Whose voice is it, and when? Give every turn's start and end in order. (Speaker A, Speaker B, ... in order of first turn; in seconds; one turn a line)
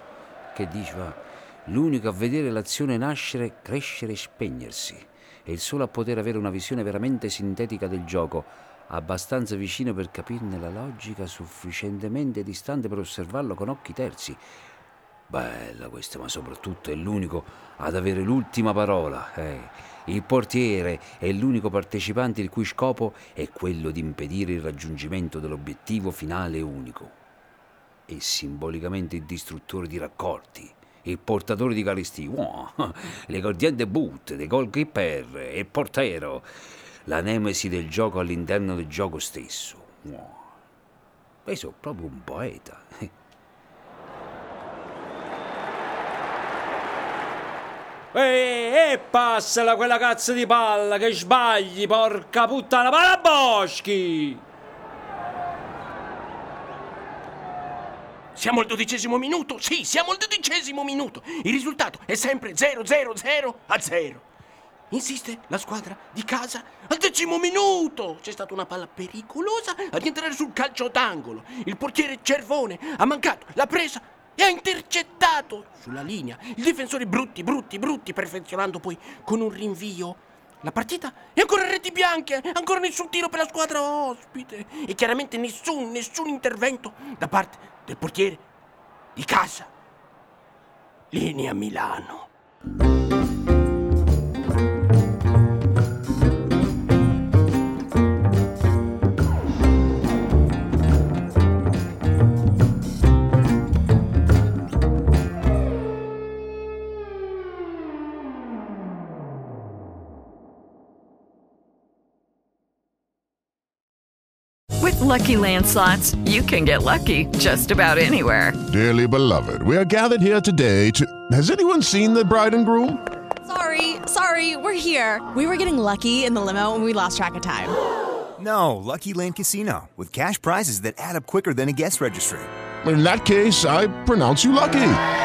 Speaker A: 0.5-14.4
Speaker A: 15.3-27.2
Speaker A: 28.1-36.5
Speaker A: 37.1-40.5
Speaker A: 41.5-43.1
Speaker A: 48.1-54.4
Speaker B: 58.4-64.3
Speaker B: 64.9-88.5
Speaker B: 89.2-89.7
Speaker B: 91.1-92.3
Speaker C: 114.8-118.6
Speaker D: 118.7-123.0
Speaker E: 123.5-127.8
Speaker F: 128.4-132.5
Speaker D: 132.8-135.0